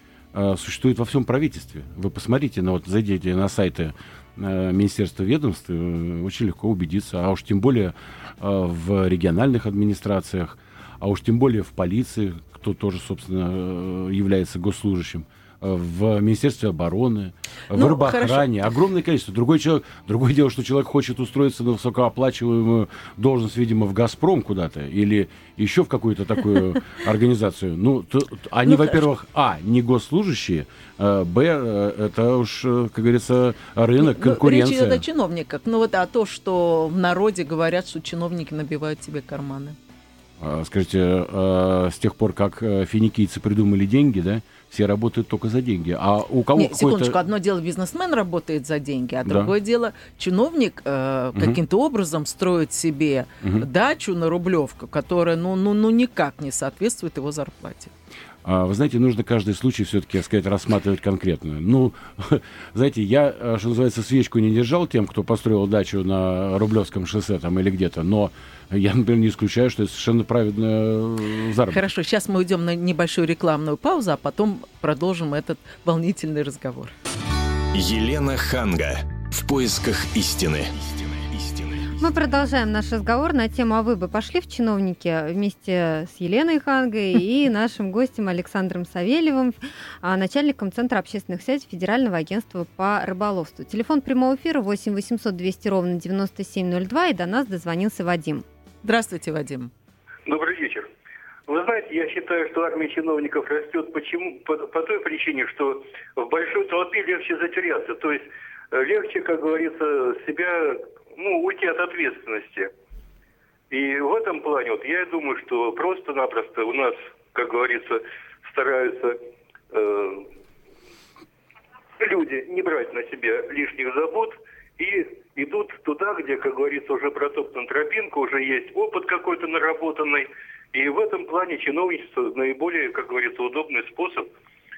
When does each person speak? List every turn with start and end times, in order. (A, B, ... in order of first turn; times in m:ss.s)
0:00.3-0:35.0 A
0:17.7-0:18.5 B
0:28.6-0:29.0 B
0:34.0-0:39.8 B
0:40.4-0:47.2 A
0:46.5-0:57.9 B
0:49.2-0:49.5 A
0:58.4-1:11.8 A
1:11.7-1:16.9 B
1:17.7-1:21.9 C
1:22.0-1:38.4 D
1:38.8-1:39.7 B
1:40.2-1:40.9 E
1:41.5-1:52.7 E
1:53.7-1:59.2 E
1:59.7-2:00.3 E
2:02.0-2:14.3 E